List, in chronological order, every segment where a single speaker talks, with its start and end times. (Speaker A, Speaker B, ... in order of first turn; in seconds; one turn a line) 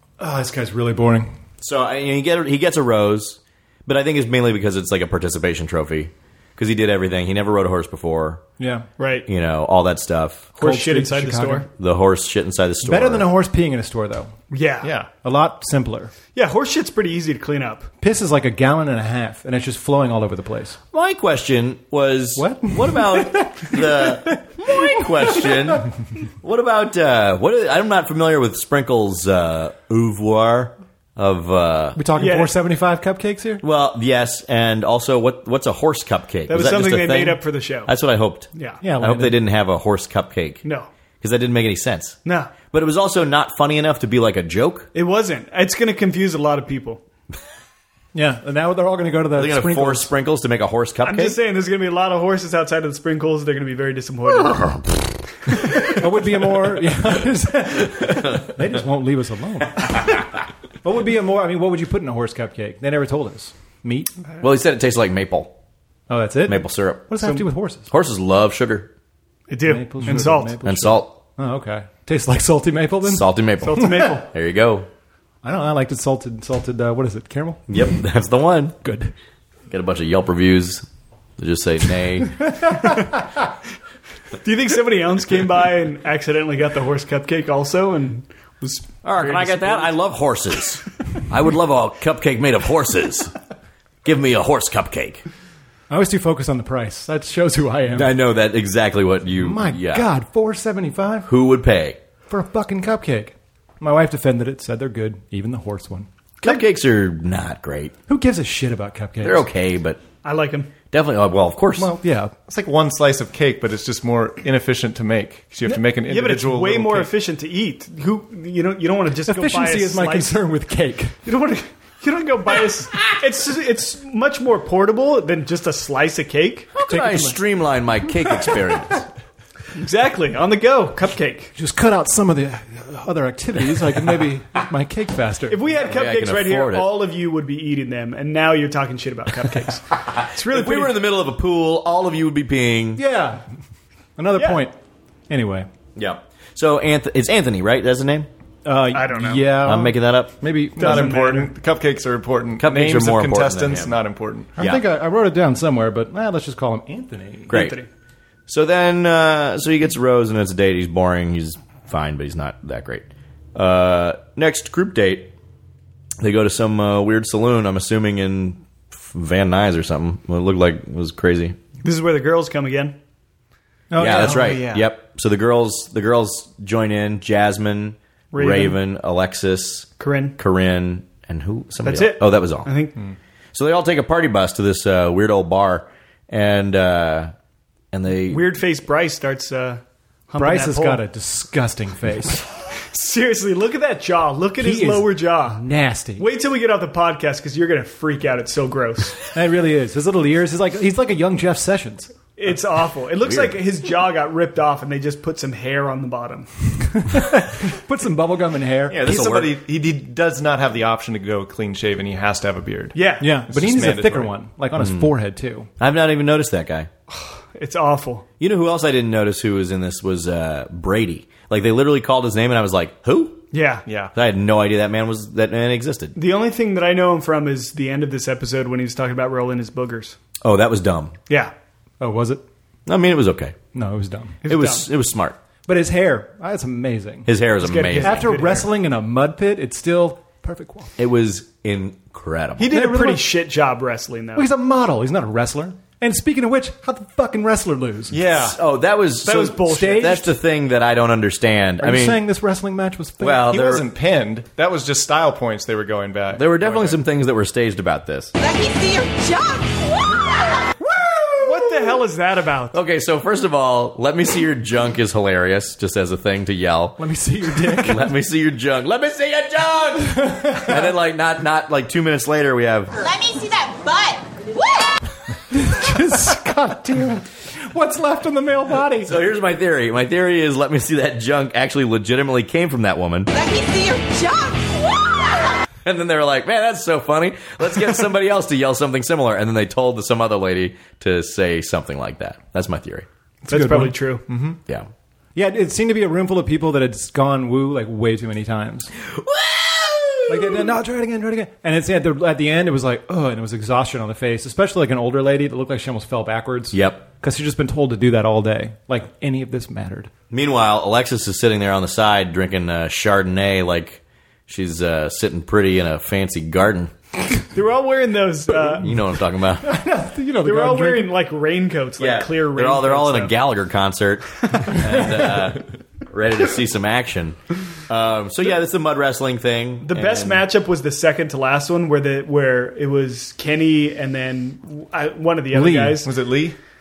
Speaker A: 0.2-1.3
Speaker B: 1.6-8.4
Speaker A: 8.6-8.8
Speaker C: 9.0-9.3
Speaker B: 9.3-10.5
Speaker C: 10.6-11.7
Speaker A: 10.6-11.7
Speaker B: 11.8-13.3
Speaker A: 12.8-14.3
Speaker C: 14.5-14.9
Speaker D: 14.8-15.1
Speaker A: 15.2-16.1
Speaker C: 16.3-17.9
Speaker A: 18.0-20.8
Speaker B: 20.9-32.0
Speaker A: 22.4-25.5
Speaker A: 31.9-33.6
Speaker C: 32.1-32.5
Speaker B: 33.6-40.6
Speaker C: 36.5-37.9
Speaker C: 38.5-38.8
Speaker A: 38.8-39.4
Speaker B: 41.2-42.2
Speaker C: 42.2-42.5
Speaker B: 42.7-44.9
Speaker C: 44.9-47.0
Speaker A: 48.1-50.1
Speaker B: 49.4-51.4
Speaker C: 51.0-54.8
Speaker B: 54.4-54.9
Speaker A: 55.9-60.0
Speaker B: 58.1-58.5
Speaker A: 60.8-64.1
Speaker B: 64.4-65.5
Speaker A: 66.1-67.9
Speaker B: 66.5-67.1
Speaker B: 67.9-68.9
Speaker C: 69.5-70.6
Speaker A: 69.7-74.2
Speaker B: 70.6-71.1
Speaker B: 73.0-74.9
Speaker C: 73.6-74.2
Speaker A: 75.4-77.6
Speaker B: 77.7-78.8
Speaker A: 78.8-79.1
Speaker B: 79.7-80.8
Speaker B: 81.4-82.5
Speaker A: 82.4-83.0
Speaker C: 84.4-89.8
Speaker B: 89.0-93.3
Speaker B: 94.0-95.2
Speaker A: 95.9-98.1
Speaker B: 98.0-100.1
Speaker A: 99.4-101.3
Speaker B: 101.2-102.0
Speaker A: 102.3-106.1
Speaker B: 106.4-107.9
Speaker A: 108.1-109.4
Speaker B: 109.2-110.0
Speaker C: 110.2-110.7
Speaker B: 110.9-111.9
Speaker A: 111.8-112.3
Speaker D: 112.5-117.1
Speaker C: 115.7-120.3
Speaker A: 119.2-121.2
Speaker C: 121.2-126.7
Speaker B: 126.7-129.1
Speaker A: 126.8-127.4
Speaker C: 129.7-131.5
Speaker A: 131.5-135.7
Speaker C: 135.5-140.9
Speaker B: 135.8-136.9
Speaker B: 140.1-143.0
Speaker A: 142.9-143.4
Speaker A: 144.2-144.8
Speaker A: 145.3-145.7
Speaker B: 145.9-148.3
Speaker A: 148.6-151.2
Speaker C: 148.9-149.5
Speaker B: 149.6-150.3
Speaker C: 150.8-151.5
Speaker D: 150.8-154.5
Speaker B: 152.6-154.0
Speaker A: 154.6-157.6
Speaker B: 154.6-154.8
Speaker B: 157.5-157.8
Speaker C: 157.5-157.9
Speaker B: 158.5-165.3
Speaker B: 166.2-171.6
Speaker C: 171.8-173.0
Speaker A: 173.9-174.6
Speaker D: 174.0-174.9
Speaker B: 174.0-182.7
Speaker C: 178.3-178.8
Speaker C: 180.0-180.4
Speaker C: 181.8-182.9
Speaker B: 183.5-187.3
Speaker B: 187.9-188.4
Speaker C: 188.3-191.0
Speaker A: 190.4-192.4
Speaker C: 192.9-195.6
Speaker A: 194.6-196.3
Speaker C: 196.2-199.2
Speaker A: 199.3-202.1
Speaker C: 202.4-206.5
Speaker B: 203.2-203.6
Speaker A: 206.9-209.3
Speaker B: 208.9-209.5
Speaker D: 208.9-214.3
Speaker C: 212.9-213.3
Speaker A: 213.2-215.7
Speaker B: 214.8-215.1
Speaker B: 215.8-216.9
Speaker C: 217.1-218.2
Speaker B: 218.4-223.5
Speaker C: 223.5-223.8
Speaker D: 223.8-224.1
Speaker B: 224.1-226.2
Speaker C: 226.2-230.2
Speaker B: 230.4-231.2
Speaker A: 232.0-232.4
Speaker B: 232.8-233.5
Speaker A: 233.7-234.4
Speaker C: 234.4-234.9
Speaker B: 234.4-235.4
Speaker A: 235.7-237.3
Speaker B: 237.2-238.3
Speaker C: 237.6-238.7
Speaker A: 238.0-240.9
Speaker B: 241.0-242.7
Speaker C: 242.6-244.5
Speaker A: 242.7-243.3
Speaker A: 244.3-248.2
Speaker D: 248.1-248.6
Speaker B: 248.3-252.2
Speaker C: 249.2-250.3
Speaker A: 249.6-250.2
Speaker A: 251.8-253.4
Speaker B: 253.2-253.8
Speaker D: 253.3-257.0
Speaker B: 256.3-258.3
Speaker E: 258.4-260.3
Speaker A: 260.8-261.7
Speaker C: 261.3-262.7
Speaker B: 262.7-267.0
Speaker A: 267.0-268.1
Speaker B: 267.6-272.9
Speaker A: 270.1-270.9
Speaker E: 272.9-275.0
Speaker A: 275.5-279.1
Speaker B: 279.0-283.3
Speaker E: 283.3-285.1
Speaker B: 285.8-293.1
Speaker A: 293.5-294.3
Speaker C: 293.5-294.2
Speaker D: 294.3-294.6
Speaker A: 295.3-298.9
Speaker B: 299.0-300.7
Speaker A: 300.3-310.1
Speaker B: 306.7-307.0
Speaker B: 310.3-316.9
Speaker C: 317.5-318.9
Speaker B: 318.7-319.7
Speaker A: 319.6-321.1
Speaker C: 320.4-323.3
Speaker B: 322.0-330.4
Speaker C: 324.5-324.8
Speaker C: 329.8-336.1
Speaker A: 335.5-336.0
Speaker D: 336.0-336.6